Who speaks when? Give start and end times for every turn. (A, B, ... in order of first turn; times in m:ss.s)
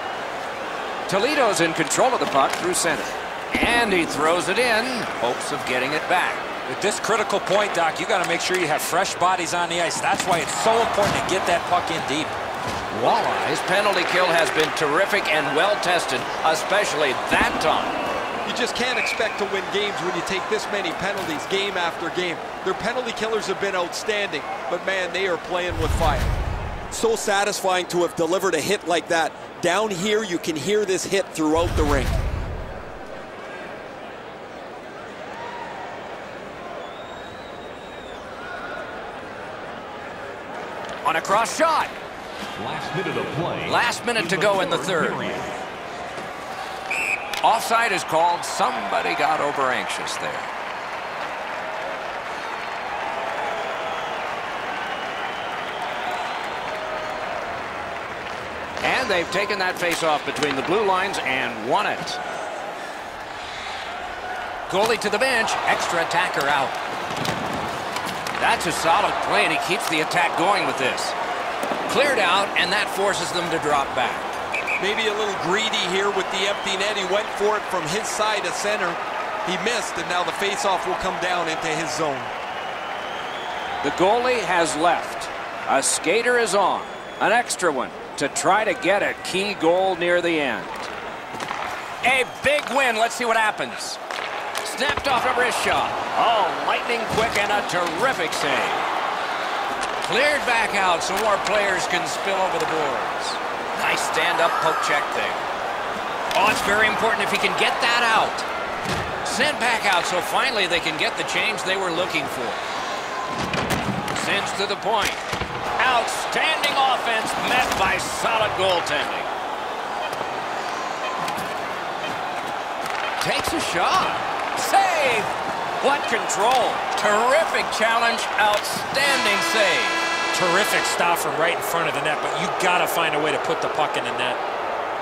0:01.1-0:06.5 A
0:06.7-0:12.4 B
0:12.9-0:18.0 A
0:18.4-0:26.4 C
0:26.9-0:32.2 C
0:41.0-0:41.9 A
0:42.6-0:45.6 D
0:43.7-0:45.2 A
0:47.4-0:50.5 A
0:58.8-1:02.2 A
1:04.7-1:06.8 A
1:08.4-1:11.2 A
1:11.9-1:14.4 A
1:14.8-1:22.3 C
1:23.8-1:30.9 A
1:32.0-1:34.0 A
1:34.6-1:38.8 A
1:40.0-1:45.5 A
1:46.3-1:48.5 A
1:49.2-1:52.6 A
1:54.1-1:55.2 A
1:55.8-1:59.3 A
2:03.2-2:10.0 A
2:10.3-2:14.4 B